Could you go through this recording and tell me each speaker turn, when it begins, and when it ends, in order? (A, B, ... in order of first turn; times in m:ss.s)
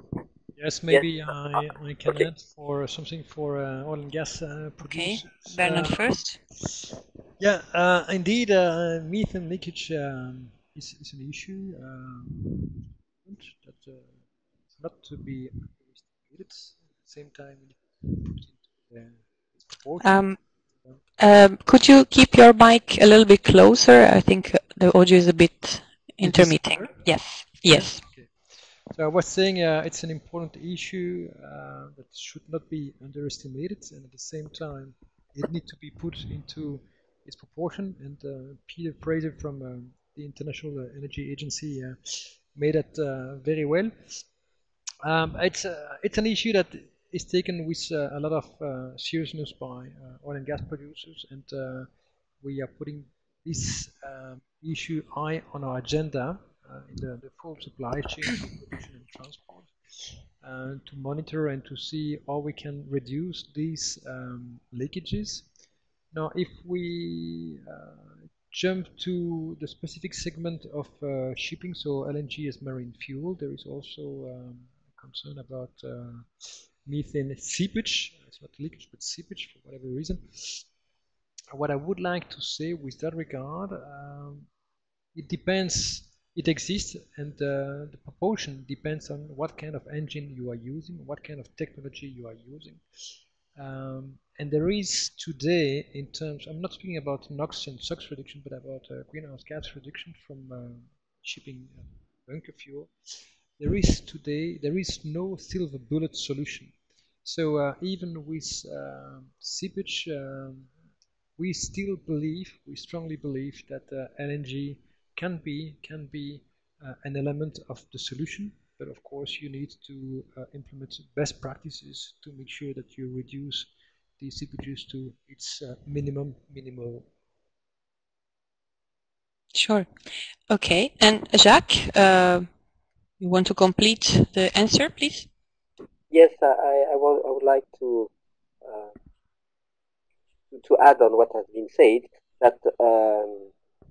0:00.6-0:06.8 A
0:04.8-0:06.4 B
0:07.4-0:21.0 A
0:20.0-0:20.4 B
0:21.2-0:28.0 B
0:26.2-0:44.2 A
0:45.0-0:51.9 A
0:52.4-1:05.5 A
1:06.1-1:20.7 A
1:21.5-1:24.5 A
1:25.1-1:50.7 A
1:51.4-2:07.1 A
2:09.5-2:09.9 B
2:10.5-2:12.5 B
2:13.2-2:15.3 B
2:16.1-2:18.1 C
2:18.6-2:18.9 C
2:20.5-2:23.5 C